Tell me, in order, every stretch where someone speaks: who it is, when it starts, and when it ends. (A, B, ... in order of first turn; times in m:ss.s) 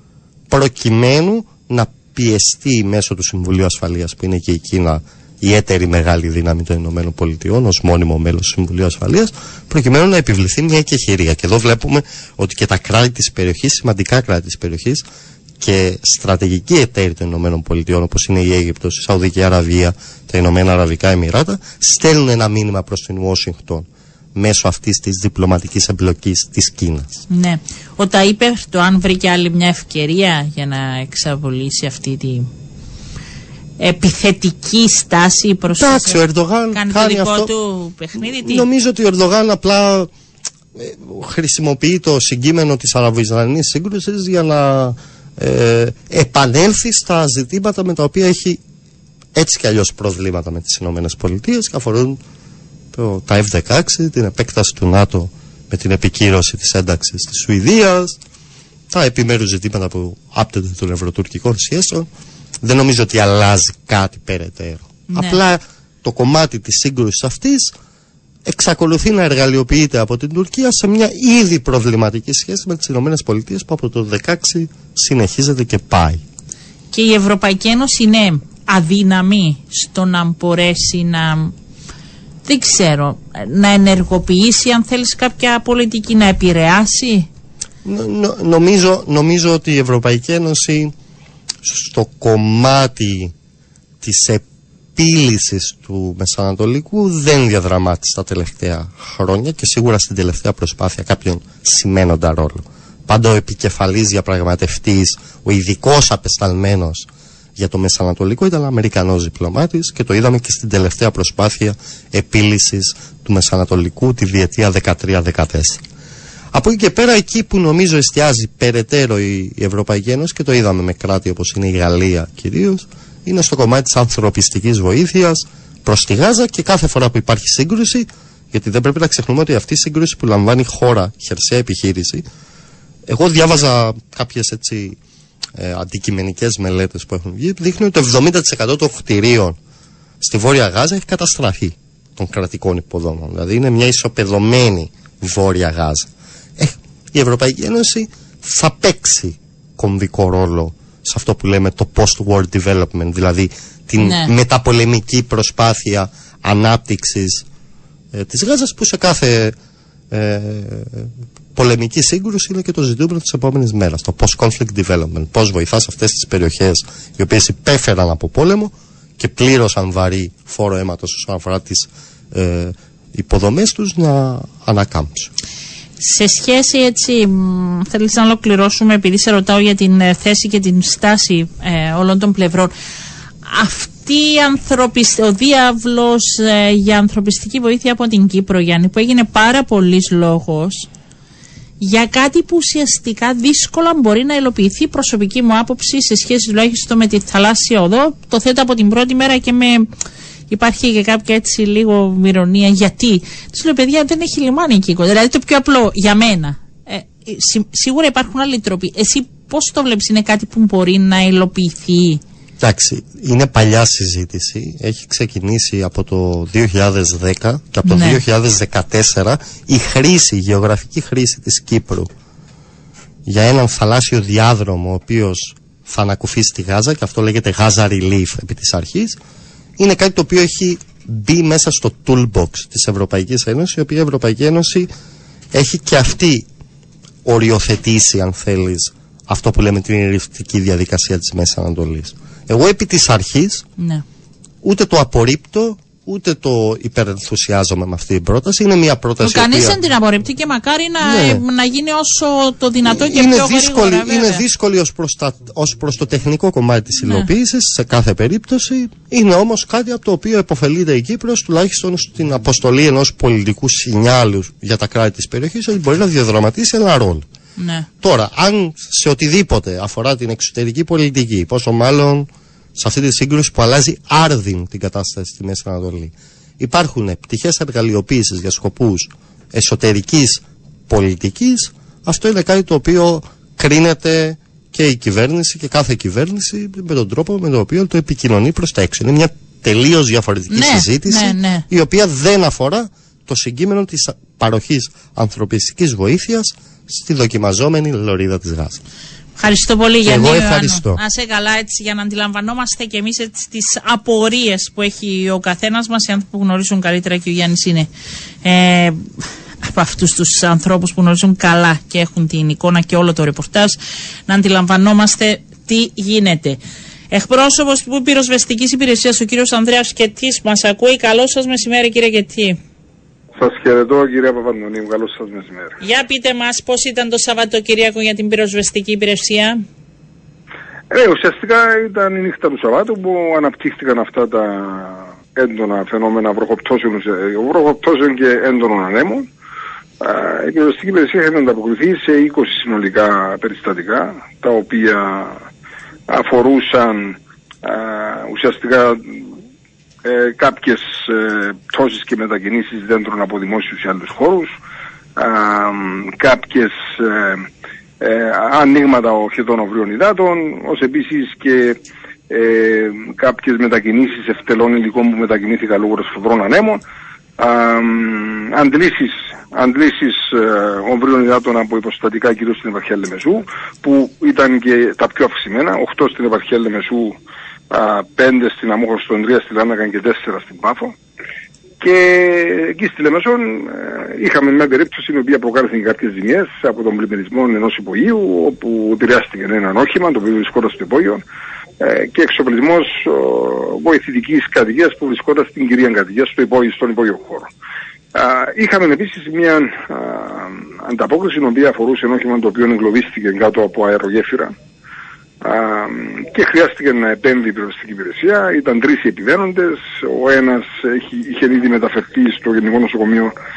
0:00.5-0:15.0 A
0:15.6-0:27.2 A
0:27.3-0:32.5 B
0:33.8-0:36.2 B
0:35.7-0:37.5 A
0:36.7-0:38.6 B
0:38.2-0:40.1 A
0:40.7-0:48.6 A
0:49.4-0:52.2 A
0:52.9-0:58.2 A
0:58.9-1:02.1 A
1:02.6-1:07.7 A
1:05.1-1:05.4 B
1:08.4-1:16.2 A
1:16.9-1:21.5 B
1:22.4-1:27.3 B
1:27.8-1:30.9 A
1:31.6-1:33.3 A
1:34.0-1:34.4 A
1:35.0-1:55.8 A
1:56.5-2:12.2 A
2:13.1-2:15.0 A
2:15.6-2:19.6 A
2:20.2-2:37.4 A
2:34.0-2:34.3 B
2:38.1-2:39.5 A
2:40.1-2:55.3 A
2:56.0-3:02.7 B
3:03.4-3:10.9 B
3:11.8-3:19.9 B
3:20.5-3:32.2 B
3:32.6-3:42.1 A
3:37.8-3:38.2 B
3:43.2-3:49.2 A
3:49.8-3:54.9 A
3:55.5-3:56.4 A
3:57.2-4:03.6 A
4:03.8-4:04.0 B
4:04.6-4:09.8 A
4:09.2-4:14.4 B
4:11.0-4:11.4 A
4:12.9-4:27.2 A
4:27.6-4:27.9 B
4:28.0-4:58.8 A
4:50.5-4:51.6 B
4:59.4-5:07.9 B
5:00.0-5:01.0 A
5:08.4-5:09.0 B
5:09.6-5:16.6 B
5:17.1-5:22.6 B
5:23.4-5:25.8 C
5:25.8-5:29.6 B
5:30.9-5:39.3 C
5:40.0-5:45.4 C
5:46.1-5:49.2 C
5:50.0-5:54.5 C
5:55.2-5:57.5 C
5:58.0-6:01.8 C
6:02.3-6:06.8 C
6:07.4-6:17.2 C
6:17.7-6:20.9 C
6:21.8-6:31.2 C
6:31.8-6:37.5 C
6:38.1-6:44.5 C
6:45.4-6:53.3 C